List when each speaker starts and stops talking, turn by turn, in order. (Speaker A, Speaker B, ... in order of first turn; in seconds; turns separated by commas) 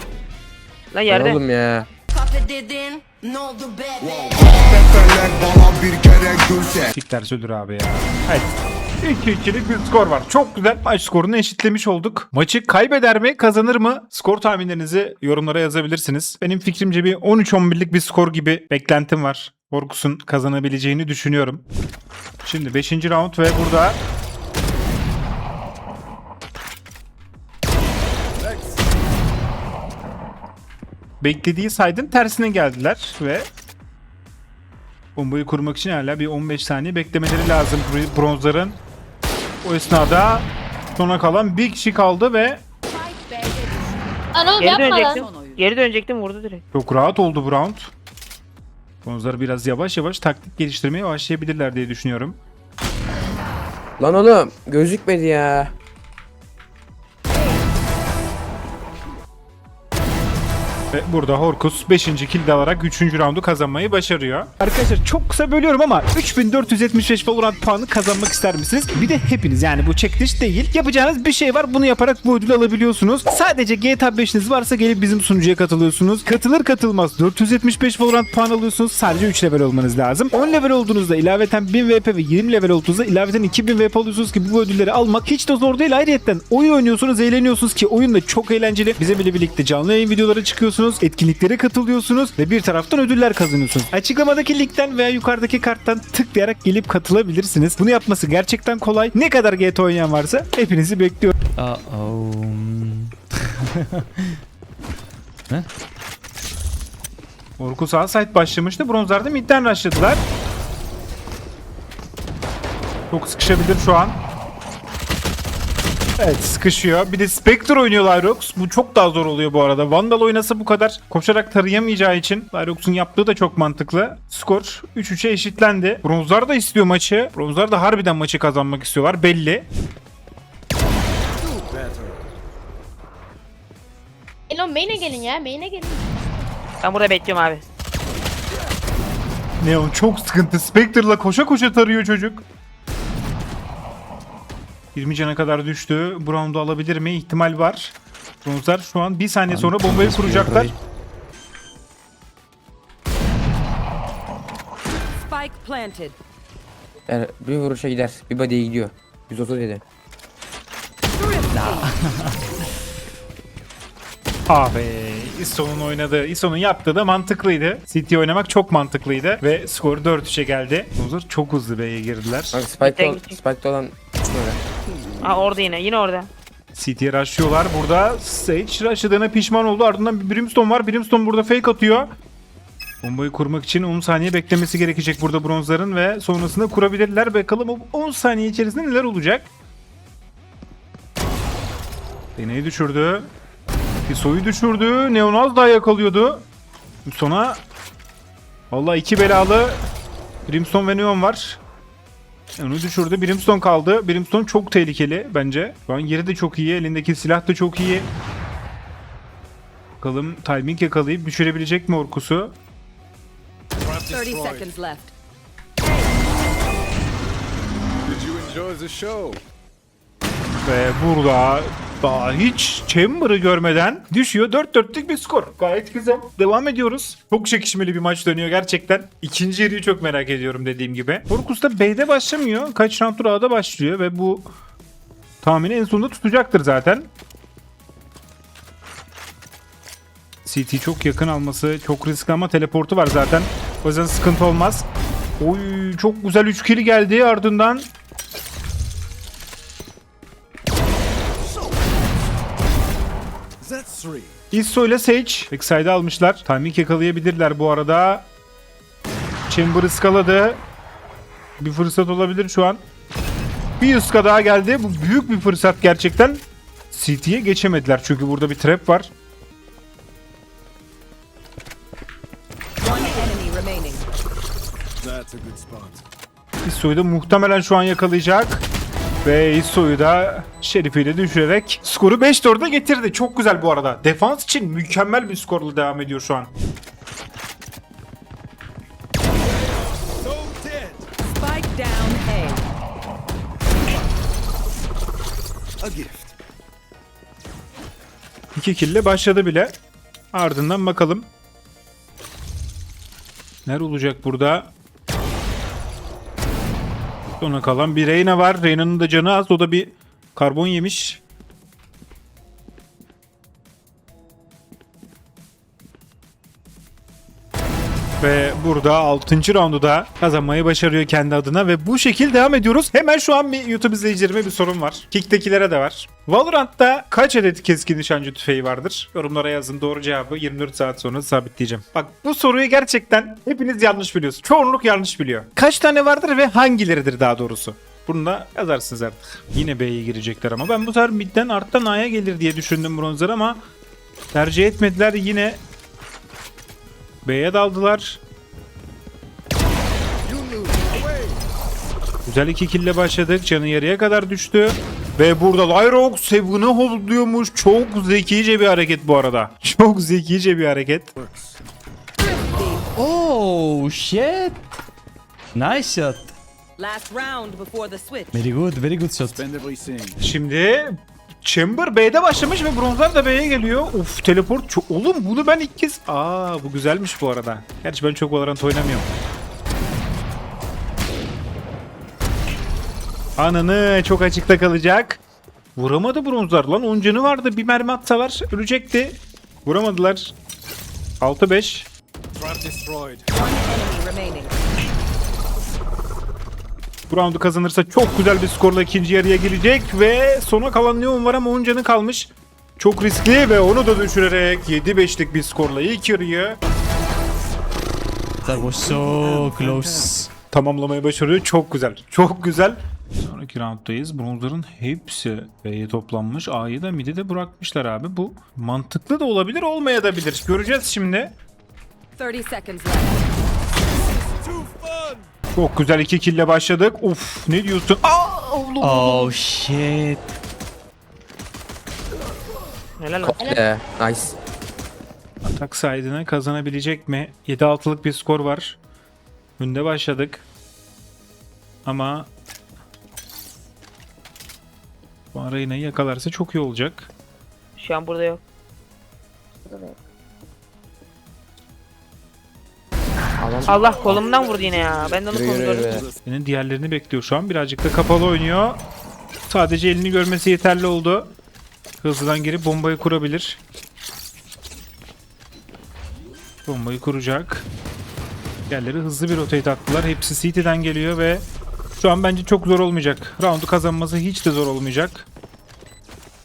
Speaker A: 0.9-1.4, Speaker B: 1.1-1.9, Speaker C: 2.1-4.1, Speaker D: 4.0-6.9, Speaker E: 6.9-21.6, Speaker E: 22.4-24.0, Speaker F: 28.4-28.8, Speaker E: 31.2-33.5, Speaker E: 35.2-38.8, Speaker E: 39.6-42.6, Speaker G: 43.3-43.6, Speaker H: 44.3-45.2, Speaker A: 44.6-46.6, Speaker G: 45.3-45.6, Speaker E: 46.7-47.9, Speaker E: 49.0-52.4, Speaker B: 54.0-55.7, Speaker E: 60.9-101.3, Speaker I: 101.6-104.4, Speaker E: 107.6-110.3, Speaker E: 113.1-114.2, Speaker E: 116.2-129.7, Speaker F: 131.4-132.3, Speaker H: 134.5-136.4, Speaker A: 136.8-137.6, Speaker E: 139.6-142.4, Speaker E: 144.9-150.7, Speaker I: 149.5-150.8, Speaker G: 155.1-156.2, Speaker B: 157.1-159.8, Speaker G: 161.1-161.9, Speaker I: 161.5-162.6, Speaker E: 164.5-172.6, Speaker B: 172.5-174.6, Speaker A: 172.8-173.4, Speaker A: 175.2-176.3, Speaker E: 176.8-182.1, Speaker E: 183.0-189.5, Speaker E: 192.4-193.3, Speaker E: 194.1-196.5, Speaker E: 197.1-197.6, Speaker E: 198.7-199.8, Speaker E: 200.5-201.6, Speaker E: 202.6-208.1, Speaker E: 210.0-212.6, Speaker F: 213.8-214.7, Speaker G: 214.1-215.1, Speaker G: 215.8-216.1, Speaker F: 218.1-219.4, Speaker E: 220.7-234.5, Speaker E: 235.4-237.1, Speaker E: 240.4-244.9, Speaker E: 245.4-247.9, Speaker F: 253.6-254.3, Speaker E: 254.5-258.3, Speaker E: 259.5-260.6, Speaker E: 261.6-262.8, Speaker E: 263.8-269.1, Speaker G: 272.8-274.1, Speaker F: 275.0-276.0, Speaker E: 276.6-278.6, Speaker E: 279.2-286.5, Speaker F: 289.4-291.1, Speaker G: 291.3-292.7, Speaker F: 295.8-296.4, Speaker E: 298.6-299.8, Speaker E: 300.3-301.3, Speaker E: 303.7-304.7, Speaker E: 307.4-311.2, Speaker E: 318.2-343.7, Speaker E: 344.3-345.6, Speaker E: 347.2-348.2, Speaker F: 350.2-351.4, Speaker E: 352.3-361.1, Speaker F: 361.2-361.6, Speaker G: 362.2-362.9, Speaker I: 362.9-364.6, Speaker I: 365.5-366.4, Speaker G: 366.8-368.5, Speaker I: 368.3-369.4, Speaker F: 369.2-370.2, Speaker E: 370.2-379.1, Speaker E: 383.4-385.2, Speaker E: 385.8-390.4, Speaker E: 391.2-391.9, Speaker F: 392.4-393.2, Speaker G: 393.3-394.6, Speaker E: 397.1-406.6, Speaker I: 408.4-410.3, Speaker F: 408.5-410.3, Speaker E: 410.5-421.4, Speaker G: 422.2-423.2, Speaker F: 424.1-425.3, Speaker E: 425.6-429.4, Speaker I: 428.8-430.3, Speaker A: 433.0-433.5, Speaker B: 433.2-434.4, Speaker E: 435.4-438.8, Speaker E: 439.6-440.4, Speaker E: 441.9-442.3, Speaker E: 445.3-447.1, Speaker A: 447.8-448.4, Speaker B: 449.7-449.9, Speaker B: 453.4-454.2, Speaker A: 453.7-456.0, Speaker F: 453.7-455.3, Speaker B: 455.3-456.1, Speaker F: 455.8-456.2, Speaker E: 456.2-458.8, Speaker E: 459.5-461.4, Speaker E: 462.0-463.6, Speaker E: 466.7-467.7, Speaker E: 468.7-475.3